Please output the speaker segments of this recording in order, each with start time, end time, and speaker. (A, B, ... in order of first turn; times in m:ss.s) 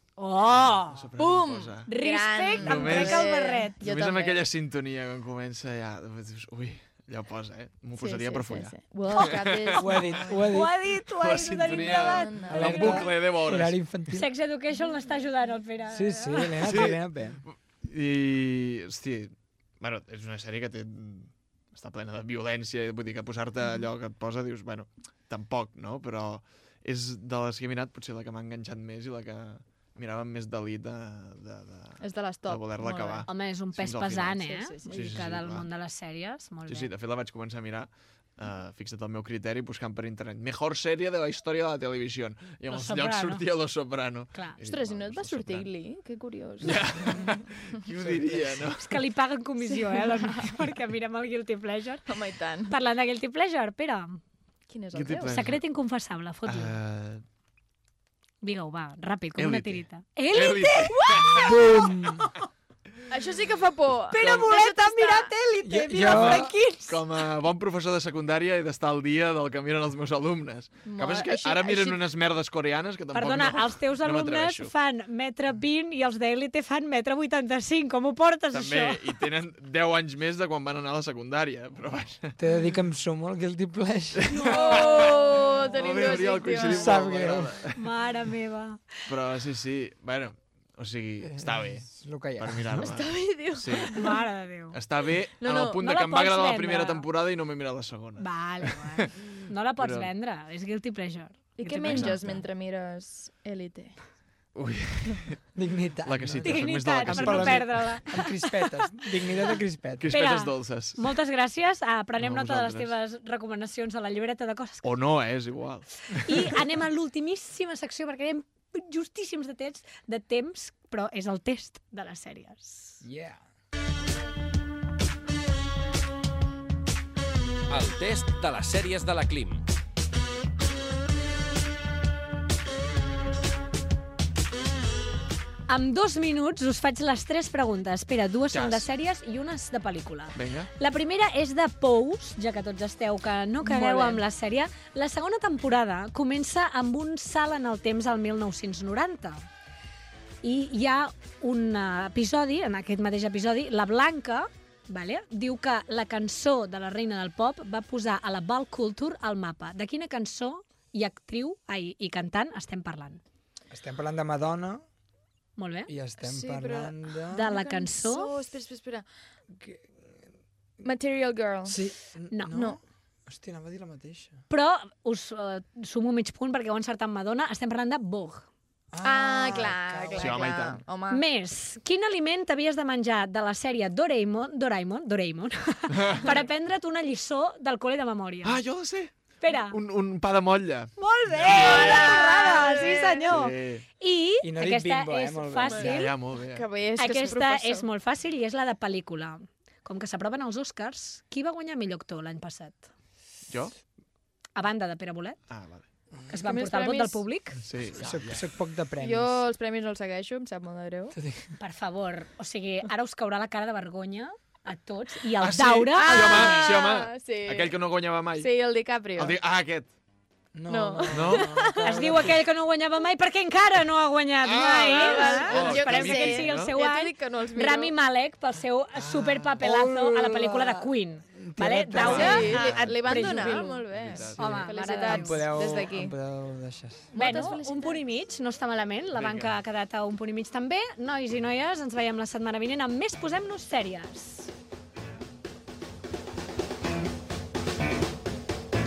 0:00.2-0:01.1 A
0:00.5-0:01.9 B
0:01.2-0:04.5 C
0:01.9-0:03.8 A
0:02.6-0:09.8 B
0:08.0-0:10.5 C
0:09.8-0:10.7 D
0:10.4-0:13.0 A
0:11.0-0:13.8 B
0:11.9-0:13.1 C
0:12.5-0:14.3 D
0:14.1-0:16.7 A
0:15.9-0:17.4 D
0:16.6-0:35.7 B
0:32.0-0:33.3 C
0:33.3-0:36.9 A
0:34.5-0:35.0 C
0:36.7-0:45.7 B
0:42.7-0:43.4 A
0:44.3-0:44.6 A
0:44.7-0:47.4 C
0:46.6-0:49.0 B
0:48.0-0:48.6 D
0:48.8-0:52.2 A
0:49.7-0:50.6 C
0:52.1-0:52.8 C
0:52.7-0:54.2 A
0:54.7-0:55.4 C
0:54.9-0:55.6 B
0:55.2-0:56.8 A
0:56.5-0:57.2 B
0:58.4-1:01.4 A
0:59.4-1:01.6 B
1:01.1-1:01.6 C
1:01.4-1:02.3 D
1:03.1-1:05.3 C
1:04.1-1:07.0 A
1:04.2-1:04.5 B
1:05.6-1:06.6 D
1:06.0-1:14.7 B
1:10.8-1:12.1 C
1:13.1-1:19.0 A
1:18.5-1:22.3 B
1:22.4-1:24.8 D
1:24.2-1:27.8 B
1:24.3-1:27.0 C
1:26.7-1:27.6 D
1:27.8-1:28.9 A
1:29.1-1:34.0 B
1:31.4-1:32.8 D
1:32.8-1:34.2 C
1:34.0-1:34.8 A
1:34.7-1:40.1 B
1:35.4-1:35.8 C
1:35.8-1:37.1 A
1:38.2-1:42.4 A
1:41.6-1:44.0 C
1:41.9-1:42.3 B
1:44.6-1:45.4 B
1:45.6-1:50.2 D
1:46.1-1:48.0 B
1:46.4-1:49.1 A
1:50.0-1:51.1 B
1:50.1-1:54.9 A
1:52.2-1:52.9 B
1:54.8-1:56.6 B
1:56.2-2:03.0 A
2:03.0-2:03.4 D
2:07.7-2:09.6 E
2:15.7-2:29.4 A
2:18.5-2:18.9 B
2:20.4-2:20.7 B
2:23.7-2:24.2 C
2:30.4-2:43.2 A
2:43.7-2:44.8 D
2:45.6-2:45.9 A
2:45.9-2:47.6 D
2:46.2-2:49.0 C
2:47.3-2:48.3 A
2:49.5-2:50.2 D
2:50.8-2:51.8 C
2:51.6-2:54.4 D
2:52.3-2:52.6 A
2:54.5-2:58.5 A
2:58.9-3:00.7 D
2:59.0-3:01.2 C
3:00.2-3:00.8 B
3:01.1-3:08.6 A
3:08.4-3:12.2 B
3:09.4-3:09.8 A
3:11.0-3:16.1 A
3:11.5-3:13.4 C
3:13.3-3:13.8 B
3:14.4-3:16.0 D
3:15.6-3:17.9 C
3:15.8-3:16.6 B
3:17.0-3:22.9 A
3:24.6-3:25.4 A
3:25.5-3:25.8 B
3:26.3-3:27.6 A
3:26.4-3:27.2 C
3:27.6-3:28.5 B
3:27.9-3:29.4 D
3:29.0-3:31.2 C
3:31.1-3:31.5 D
3:31.6-3:36.6 A
3:35.4-3:38.5 B
3:36.0-3:37.8 C
3:38.4-3:39.4 C
3:39.2-3:39.9 B
3:40.6-3:42.4 D
3:40.7-3:42.0 C
3:41.1-3:41.5 B
3:41.8-3:55.5 A
3:44.4-3:46.8 B
3:44.6-3:48.0 C
3:49.0-3:49.6 B
3:49.6-3:52.6 D
3:52.0-3:54.7 B
3:52.0-3:56.1 C
3:53.2-3:53.5 D
3:54.4-3:57.1 D
3:57.1-3:58.0 C
3:57.2-4:04.5 A
3:59.2-3:59.6 B